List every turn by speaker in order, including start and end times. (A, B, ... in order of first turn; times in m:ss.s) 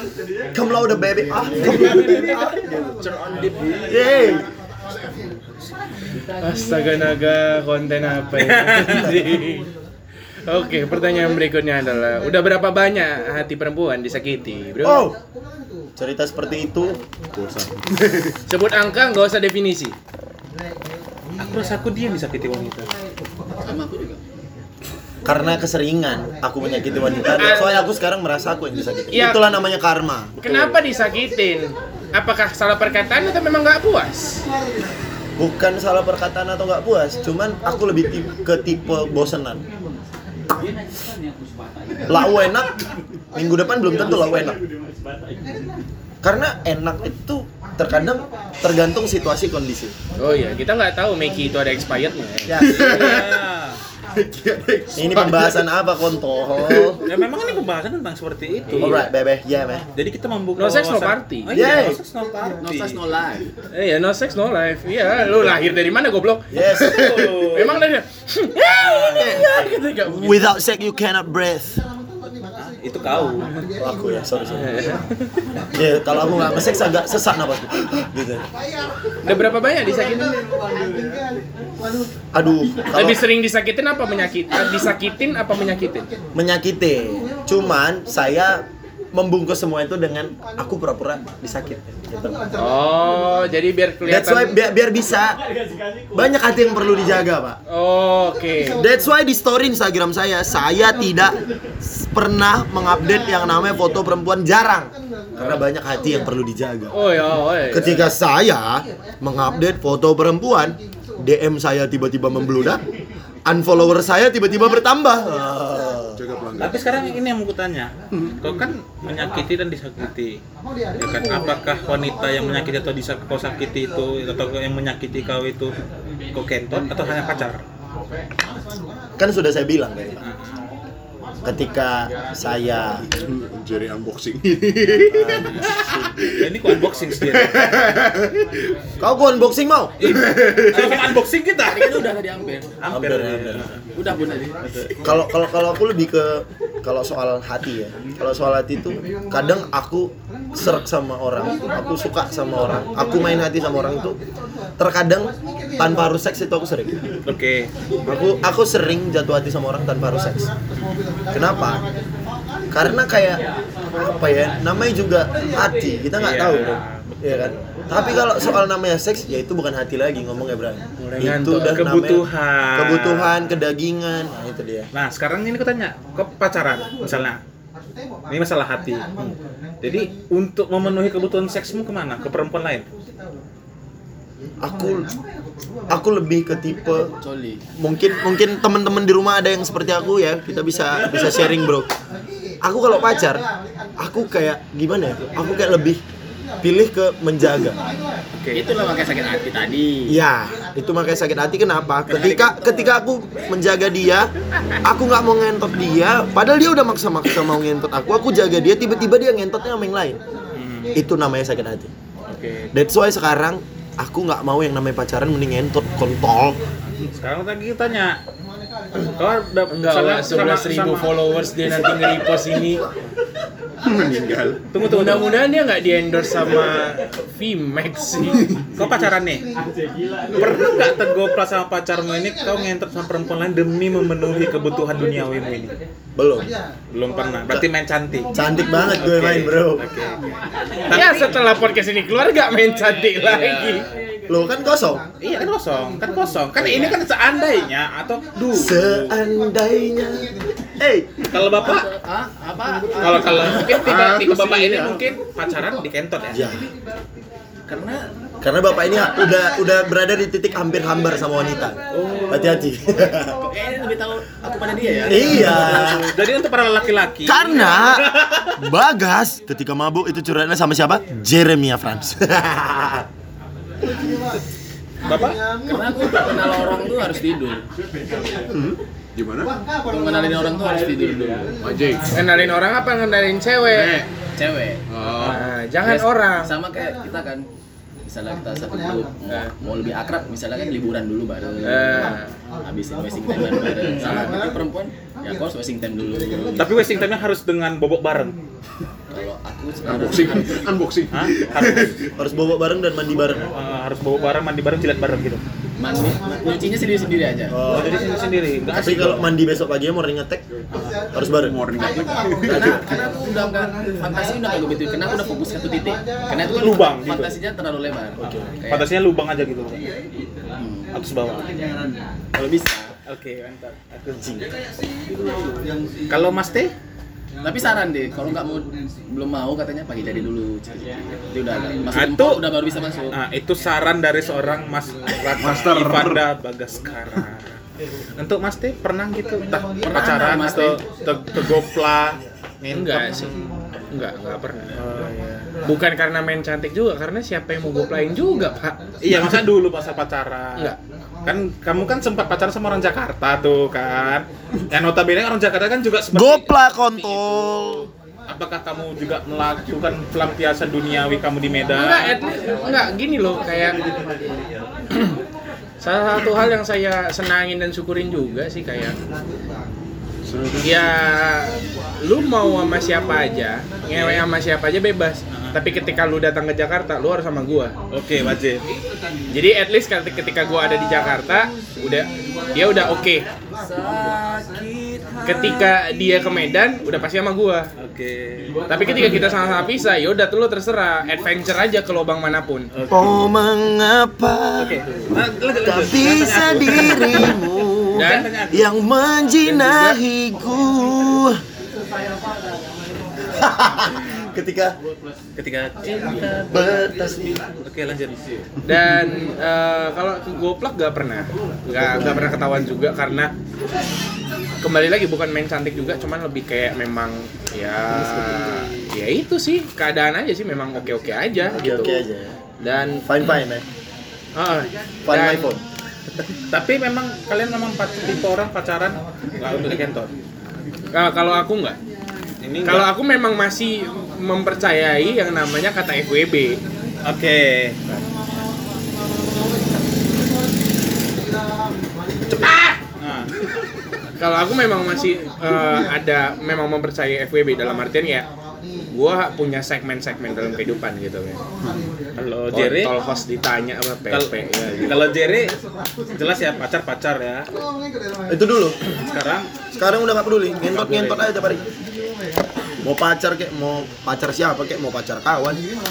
0:00.5-0:02.4 A
0:01.7-0:02.4 B
0:01.8-0:04.4 C
0:03.9-0:04.5 A
0:06.4-0:09.7 D
0:08.4-0:09.1 B
0:10.5-0:15.1 D
0:14.8-0:15.2 A
0:16.0-0:17.0 A
0:17.3-0:18.4 E
0:18.5-0:20.0 D
0:21.4-0:22.9 B
0:23.6-0:24.2 C
0:25.2-0:30.4 A
0:27.3-0:27.8 D
0:29.1-0:29.5 D
0:30.4-0:34.4 D
0:35.4-0:39.6 A
0:42.1-0:42.8 A
0:43.3-0:44.6 A
0:46.2-0:50.0 A
0:50.2-0:52.6 D
0:52.5-0:53.2 A
0:52.6-0:53.8 B
0:52.7-0:53.2 E
0:54.2-0:55.6 E
0:54.9-0:57.0 A
0:56.7-0:56.9 E
0:57.0-0:59.1 B
0:58.8-0:59.8 A
1:00.0-1:03.0 B
1:00.6-1:01.7 D
1:01.5-1:02.0 A
1:02.6-1:03.5 C
1:03.7-1:06.5 D
1:06.5-1:07.3 A
1:06.8-1:07.8 B
1:07.2-1:10.5 D
1:08.6-1:09.5 B
1:09.2-1:11.8 A
1:12.6-1:13.5 B
1:13.8-1:14.9 A
1:14.6-1:15.0 D
1:15.7-1:18.4 A
1:19.2-1:20.4 D
1:22.3-1:23.2 A
1:22.9-1:26.1 D
1:26.4-1:32.4 A
1:32.6-1:34.6 D
1:34.0-1:35.4 A
1:36.1-1:37.6 A
1:37.7-1:38.8 D
1:38.8-1:46.9 A
1:46.9-1:48.1 D
1:47.7-1:52.8 A
1:53.5-1:56.2 A
1:56.2-1:56.8 E
1:56.6-2:00.4 B
2:01.0-2:05.7 B
2:06.3-2:07.6 B
2:09.2-2:10.2 A
2:10.2-2:10.6 B
2:11.4-2:13.1 A
2:13.1-2:18.5 E
2:15.1-2:15.7 B
2:16.3-2:18.0 B
2:19.0-2:20.0 A
2:20.0-2:22.1 B
2:20.0-2:21.2 E
2:21.6-2:22.7 C
2:22.8-2:23.8 B
2:22.9-2:23.7 A
2:24.0-2:24.8 C
2:24.6-2:24.9 B
2:25.0-2:34.2 A
2:34.8-2:37.0 A
2:37.3-2:37.7 B
2:38.1-2:40.5 A
2:41.3-2:41.8 A
2:42.7-2:54.9 A
2:46.2-2:47.5 B
2:51.0-2:51.8 D
2:51.6-2:53.4 B
2:54.9-2:57.4 B
2:58.3-2:59.1 B
2:59.8-3:02.9 B
3:04.6-3:05.1 A
3:05.9-3:07.1 A
3:07.2-3:07.6 C
3:07.8-3:11.9 A
3:12.6-3:13.5 A
3:14.0-3:16.0 A
3:16.6-3:17.8 A
3:18.4-3:18.7 B
3:18.5-3:20.2 C
3:20.1-3:24.3 A
3:22.1-3:23.0 C
3:24.8-3:30.2 A
3:30.6-3:31.0 B
3:30.9-3:31.9 A
3:32.4-3:32.7 D
3:32.7-3:36.6 A
3:37.1-3:38.2 B
3:39.0-3:41.2 B
3:39.7-3:42.8 D
3:43.8-3:44.6 E
3:44.7-3:45.4 B
3:44.8-3:48.4 D
3:48.8-3:49.5 B
3:50.3-3:55.8 B
3:56.2-3:56.5 A
3:56.9-4:00.2 B
3:58.3-3:59.8 A
4:00.9-4:01.4 B
4:00.9-4:03.9 D
4:03.2-4:03.8 C
4:04.3-4:05.0 A
4:05.2-4:09.2 B
4:06.6-4:06.9 C
4:08.5-4:11.1 A
4:11.3-4:11.9 B
4:11.6-4:15.0 C
4:13.0-4:16.5 B
4:16.3-4:16.7 A
4:18.4-4:21.8 A
4:22.0-4:22.5 B
4:22.3-4:23.4 A
4:23.4-4:26.2 C
4:25.0-4:26.1 A
4:25.7-4:28.6 B
4:27.2-4:33.1 A
4:35.0-4:35.4 B
4:35.6-4:37.6 C
4:38.5-4:39.5 E
4:39.9-4:41.6 C
4:41.6-4:42.1 E
4:42.1-4:44.0 D
4:43.7-4:47.5 C
4:44.9-4:45.4 E
4:45.2-4:46.6 D
4:48.1-4:56.9 C
4:51.6-4:52.3 D
4:56.6-4:58.4 B
4:59.1-5:00.7 C
4:59.8-5:02.0 E
5:01.1-5:01.9 B
5:01.6-5:01.9 C
5:02.2-5:03.5 A
5:03.5-5:05.4 B
5:05.8-5:07.6 C
5:07.5-5:08.0 A
5:07.7-5:09.3 B
5:08.7-5:10.4 A
5:11.1-5:11.6 A
5:11.2-5:12.8 E
5:12.4-5:12.8 A
5:12.5-5:18.9 C
5:16.4-5:17.4 B
5:18.3-5:19.8 B
5:20.6-5:20.9 C
5:20.9-5:21.5 B
5:22.3-5:22.9 C
5:23.1-5:24.5 B
5:26.1-5:26.7 B
5:27.4-5:33.2 C
5:31.9-5:32.5 B
5:33.1-5:37.6 B
5:35.3-5:36.3 E
5:38.2-5:43.4 B
5:39.8-5:40.8 C
5:42.7-5:43.3 D
5:43.9-5:44.8 D
5:44.7-5:45.5 B
5:45.6-5:48.8 D
5:49.0-5:50.8 B
5:51.3-6:02.2 B
5:56.1-5:57.9 A
6:01.7-6:03.8 D
6:05.8-6:09.0 D
6:10.2-6:10.9 E
6:10.6-6:17.8 D
6:13.9-6:14.3 B
6:15.3-6:15.6 B
6:17.9-6:18.6 B
6:19.3-6:23.3 D
6:23.6-6:24.2 C
6:23.8-6:25.6 B
6:25.2-6:27.7 D
6:27.8-6:29.2 B
6:28.7-6:32.7 D
6:32.9-6:34.8 A
6:34.6-6:38.7 B
6:35.6-6:41.4 A
6:38.0-6:38.3 D
6:39.4-6:40.0 D
6:43.3-6:44.8 A
6:45.4-6:47.0 B
6:46.5-6:47.4 A
6:47.5-6:48.2 B
6:48.7-6:53.3 D
6:51.8-6:52.3 A
6:54.6-7:02.0 D
7:01.5-7:02.4 A
7:02.6-7:03.0 D
7:03.0-7:03.6 A
7:04.4-7:05.5 D
7:05.1-7:05.6 A
7:06.5-7:10.1 B
7:10.9-7:11.8 D
7:12.4-7:12.9 B
7:12.6-7:16.6 D
7:17.0-7:17.8 B
7:22.4-7:22.8 D
7:23.0-7:23.3 B
7:24.2-7:28.3 D
7:28.9-7:31.4 D
7:32.2-7:32.9 B
7:32.5-7:35.0 D
7:34.1-7:35.5 B
7:36.2-7:37.5 B
7:38.3-7:38.8 A
7:38.9-7:39.5 B
7:39.8-7:41.6 A
7:40.6-7:41.3 B
7:42.8-7:45.6 A